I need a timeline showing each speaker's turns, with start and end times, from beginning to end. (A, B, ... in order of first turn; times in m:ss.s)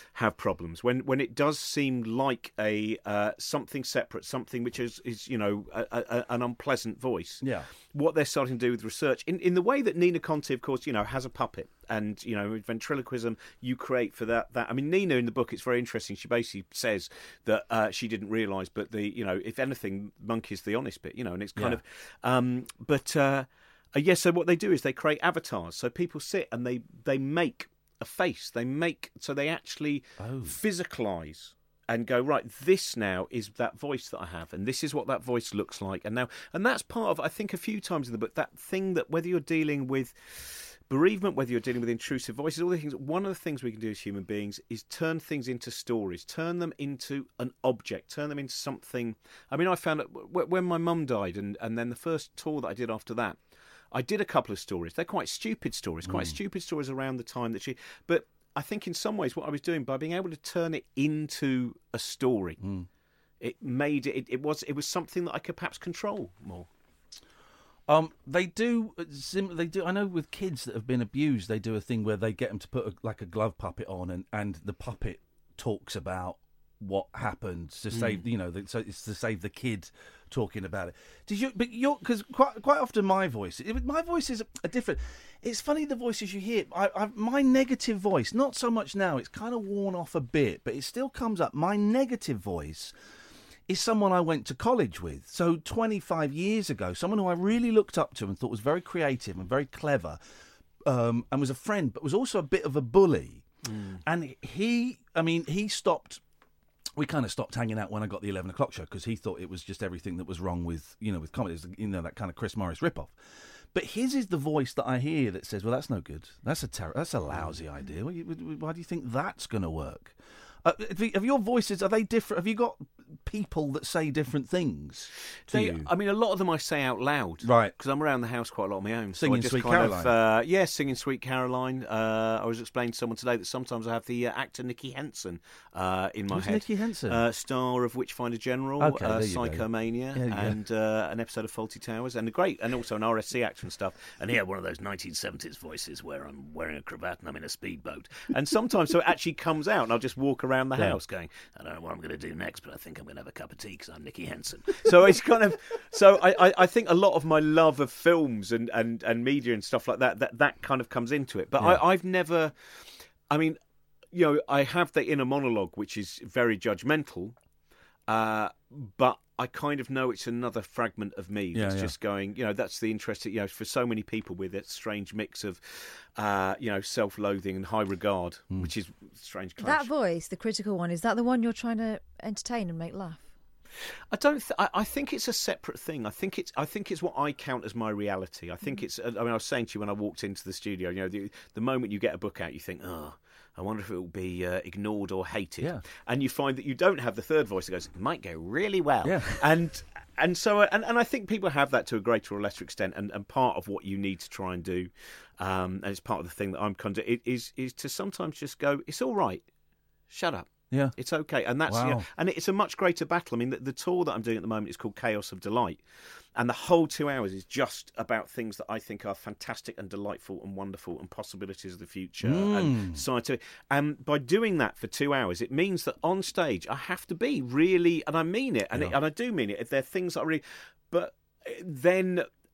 0:00.1-0:53.4 A
0:07.4-0:07.7 B
0:21.6-0:21.8 B
0:30.2-0:30.6 B
0:53.9-1:02.6 A
0:56.0-0:56.4 B
1:02.6-1:02.9 B
1:03.4-1:06.7 A
1:07.9-1:32.9 B
1:17.9-1:18.2 A
1:33.7-1:40.2 B
1:40.9-1:43.4 B
1:43.6-1:44.0 A
1:44.0-1:46.2 B
1:47.0-1:53.2 B
1:53.7-2:05.9 B
2:05.5-2:42.5 A
2:07.4-2:07.7 B
2:09.2-2:10.1 B
2:16.3-2:17.2 B
2:18.8-2:20.6 B
2:43.3-2:43.6 A
2:44.1-2:47.4 A
2:48.1-2:59.9 A
2:51.5-2:51.9 B
2:59.6-3:03.2 C
3:04.1-3:29.4 A
3:19.0-3:19.4 B
3:30.1-3:35.8 A
3:31.7-3:32.0 B
3:36.4-3:52.3 A
3:42.2-3:43.0 B